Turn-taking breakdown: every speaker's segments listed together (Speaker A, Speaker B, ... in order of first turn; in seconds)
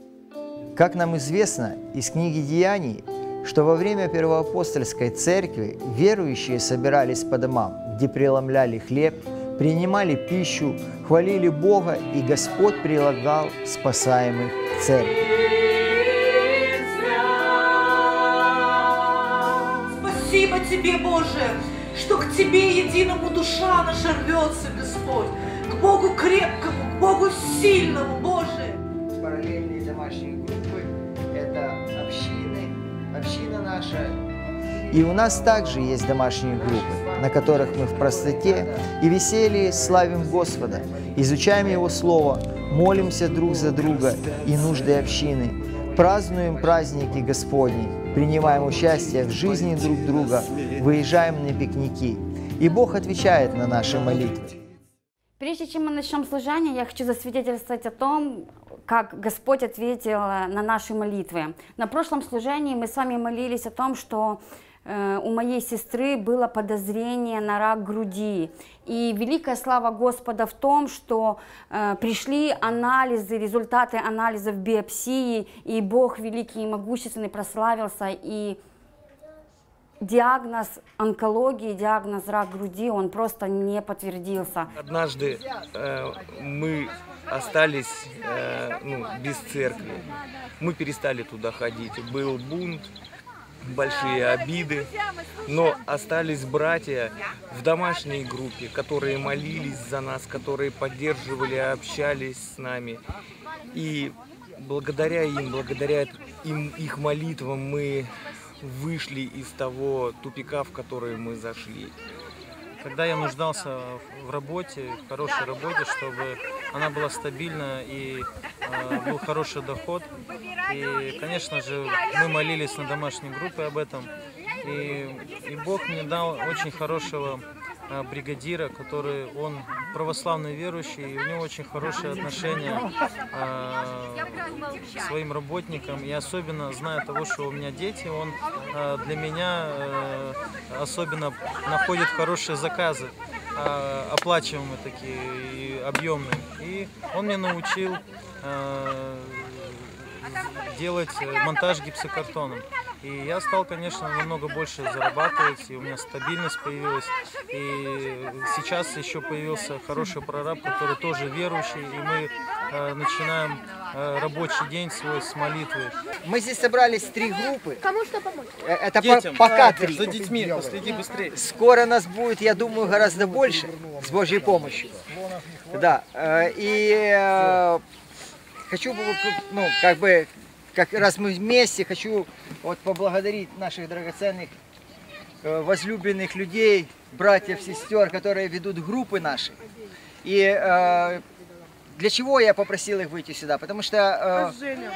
Speaker A: 0.8-15.2, 29.2-34.2, 34.9-54.5, 166.2-167.9, 168.6-170.1, 171.3-175.0, 175.7-177.8, 178.7-184.6, 185.4-189.6, 190.2-191.2, 191.9-194.6
Speaker B: 15.7-16.6, 17.2-18.3, 19.9-28.8
Speaker C: 55.4-78.6, 80.0-84.7
Speaker D: 84.8-92.9, 93.7-94.9, 95.5-103.0, 103.7-112.0
Speaker E: 112.8-120.1, 120.6-124.1, 124.6-166.0, 169.0-171.3